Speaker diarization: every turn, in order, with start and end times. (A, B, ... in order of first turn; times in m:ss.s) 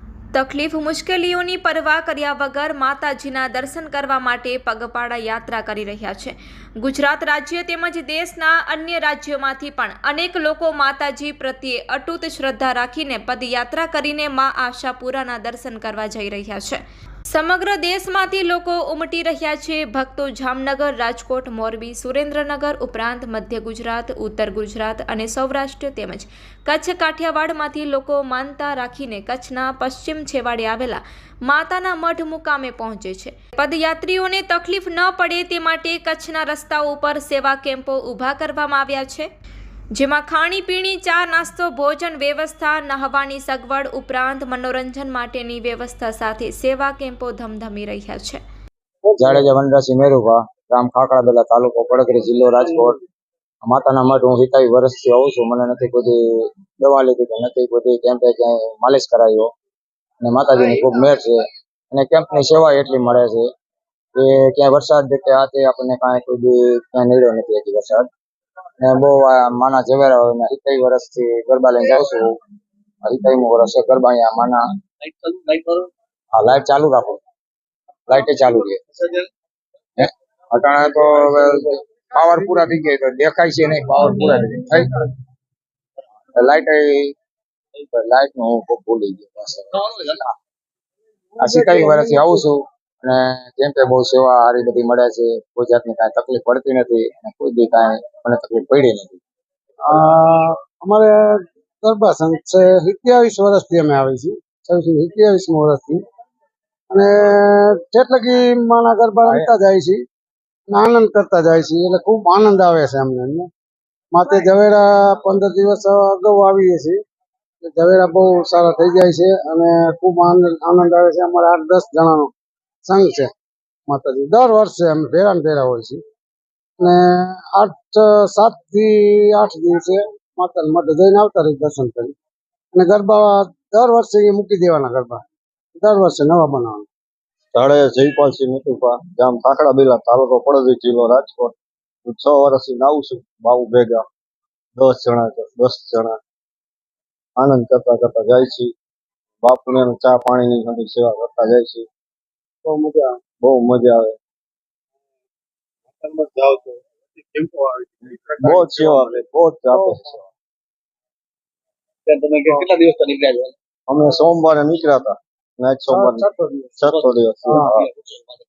0:00.3-0:39.3 A
0:39.9-0:48.4 A
0:49.0-0:49.5 B
0:49.2-0:53.0 C
0:53.6-0:59.5 C
1:00.2-1:01.4 C
1:01.9-1:03.5 C
1:04.2-1:08.1 C
1:08.8-1:12.4 C
1:13.0-1:14.6 C
1:15.0-1:15.9 D
1:16.4-1:17.2 C
1:18.1-1:18.8 C
1:20.0-1:25.0 C
1:26.3-1:27.1 C
1:27.8-1:30.3 C
1:31.4-1:32.4 B
1:31.4-1:39.2 C
1:39.8-1:46.0 B
1:46.9-1:50.0 B
1:50.7-1:53.4 B
1:54.1-1:57.0 B
1:57.6-2:02.3 B
2:02.8-2:03.3 B
2:03.9-2:06.0 B
2:06.8-2:12.1 B
2:12.7-2:15.2 B
2:15.8-2:16.8 B
2:17.5-2:24.0 E
2:24.8-2:26.2 E
2:27.4-2:28.7 E
2:29.4-2:31.9 E
2:32.6-2:33.2 B
2:33.4-2:34.2 E
2:36.0-2:39.2 D
2:38.4-2:40.2 E
2:42.1-2:43.5 D
2:43.9-2:46.2 E
2:45.9-2:46.8 B
2:46.8-2:47.8 E
2:47.7-2:48.2 D